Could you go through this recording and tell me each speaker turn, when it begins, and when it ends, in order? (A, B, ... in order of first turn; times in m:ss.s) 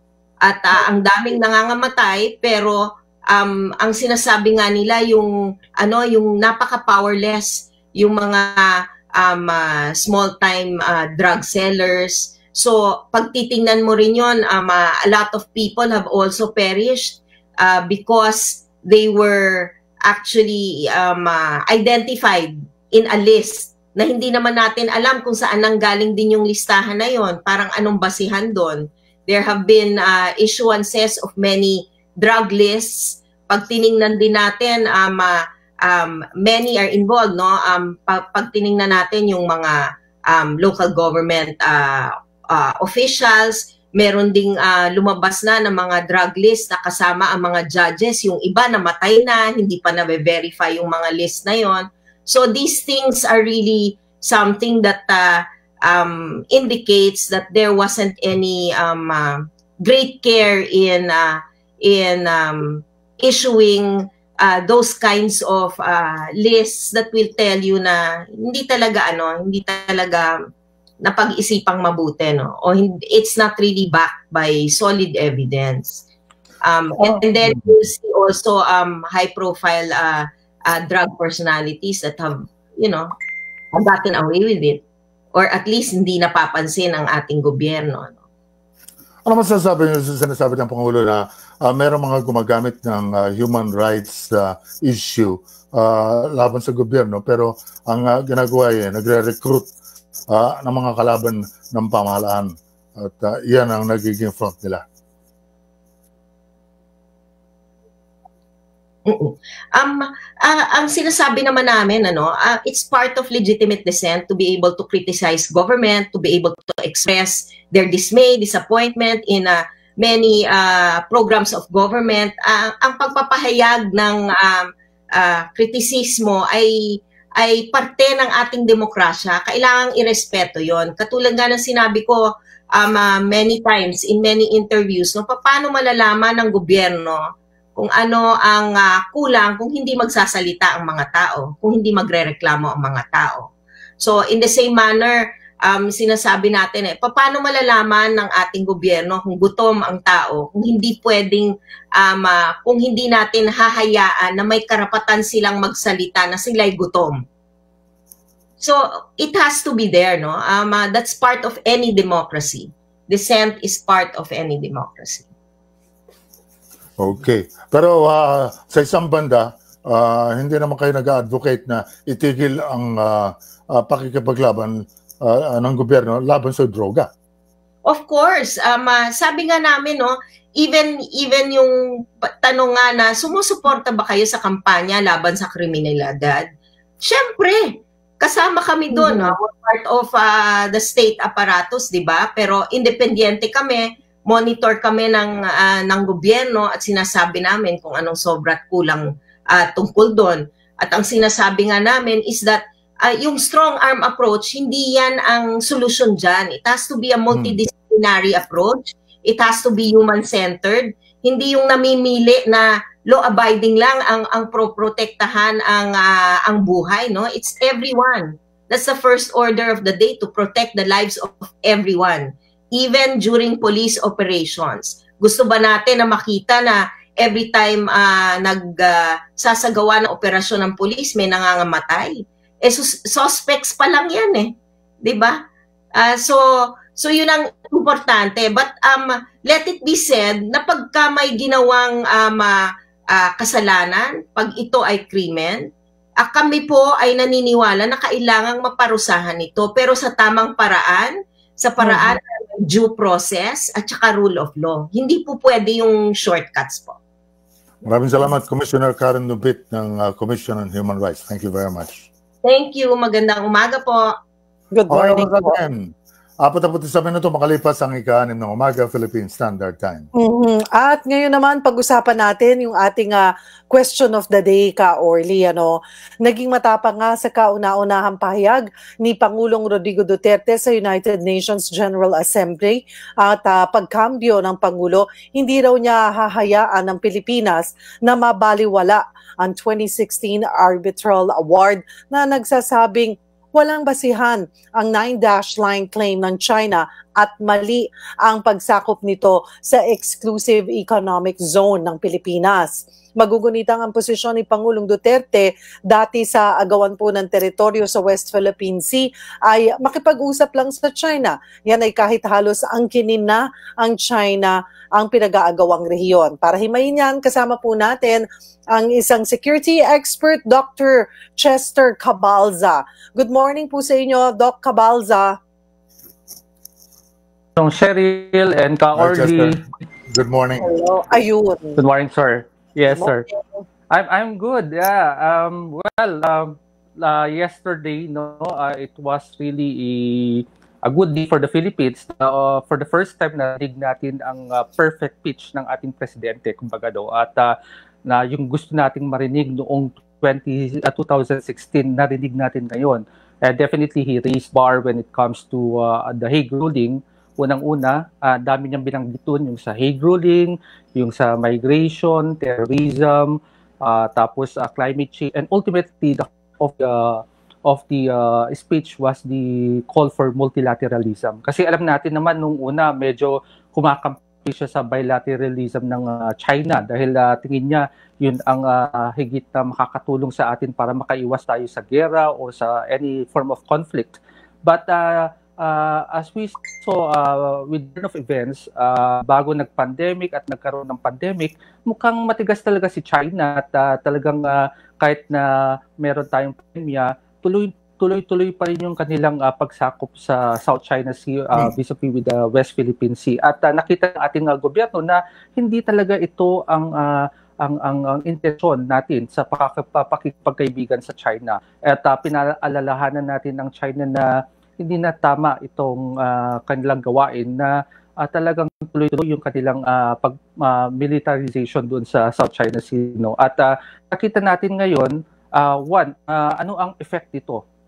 0:00.4-1:10.3 A
1:11.0-1:16.0 A
1:16.6-1:23.1 A
1:17.4-1:17.7 B
1:23.7-1:24.8 A
1:25.3-1:28.2 A
1:29.3-1:39.7 B
1:40.3-1:44.8 B
1:49.1-2:37.2 A
2:38.6-2:45.3 A
2:47.0-2:57.1 B
2:57.8-3:06.5 A
3:07.0-3:55.4 A
3:08.9-3:09.3 C
3:27.3-3:27.6 B
3:55.9-4:05.7 A
4:06.2-4:17.0 A
4:11.8-4:12.1 C
4:17.9-4:22.1 B
4:22.4-4:24.1 A
4:24.7-4:25.6 C
4:24.9-4:25.9 B
4:26.4-4:30.1 B
4:30.2-5:25.4 C
5:27.6-5:29.6 D
5:29.0-5:29.6 B
5:30.1-5:30.7 B
5:30.6-5:31.8 C
5:31.8-5:33.2 D
5:32.9-5:33.6 C
5:33.9-5:47.5 D
5:48.0-7:07.6 D